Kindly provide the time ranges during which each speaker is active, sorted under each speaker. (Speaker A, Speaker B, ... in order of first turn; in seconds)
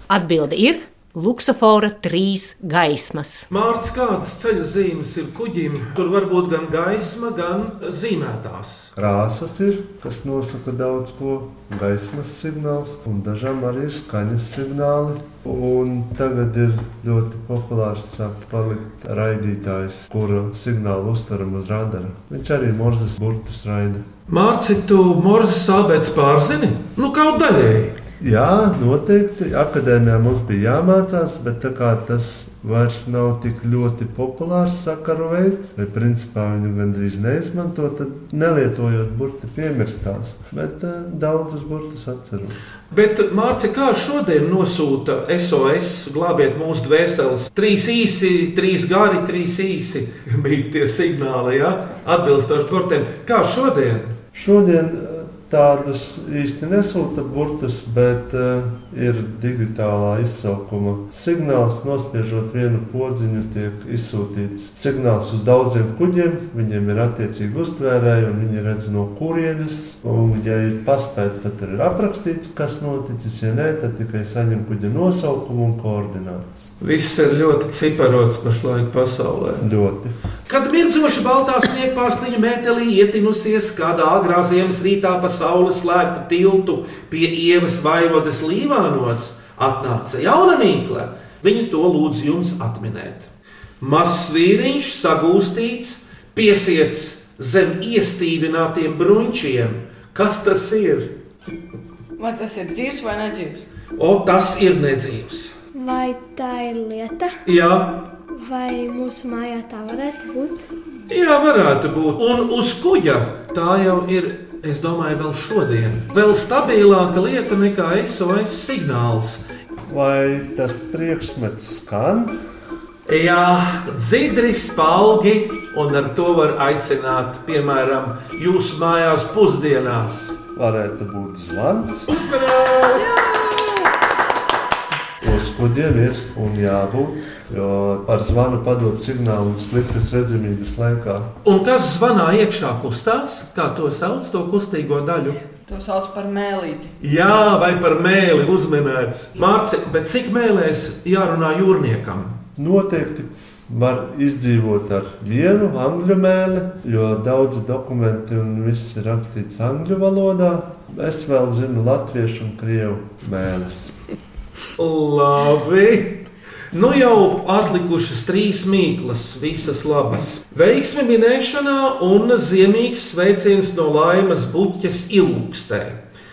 Speaker A: 0.1-3.5
Speaker B: 3.5-8.9, 24.3-28.0, 42.9-54.2, 76.8-79.7, 80.5-93.3, 93.8-101.2, 104.0-105.5, 107.5-108.1, 111.1-119.4, 123.1-130.4, 132.1-133.6, 141.4-145.4, 147.0-152.4, 164.8-176.0
Speaker C: 9.0-24.0, 28.2-42.6, 54.4-76.7, 79.6-80.1, 119.9-122.4, 130.6-132.1, 135.2-141.3, 152.6-163.9
Speaker D: 102.2-103.7, 145.6-146.9
Speaker E: 105.8-107.4, 108.3-110.7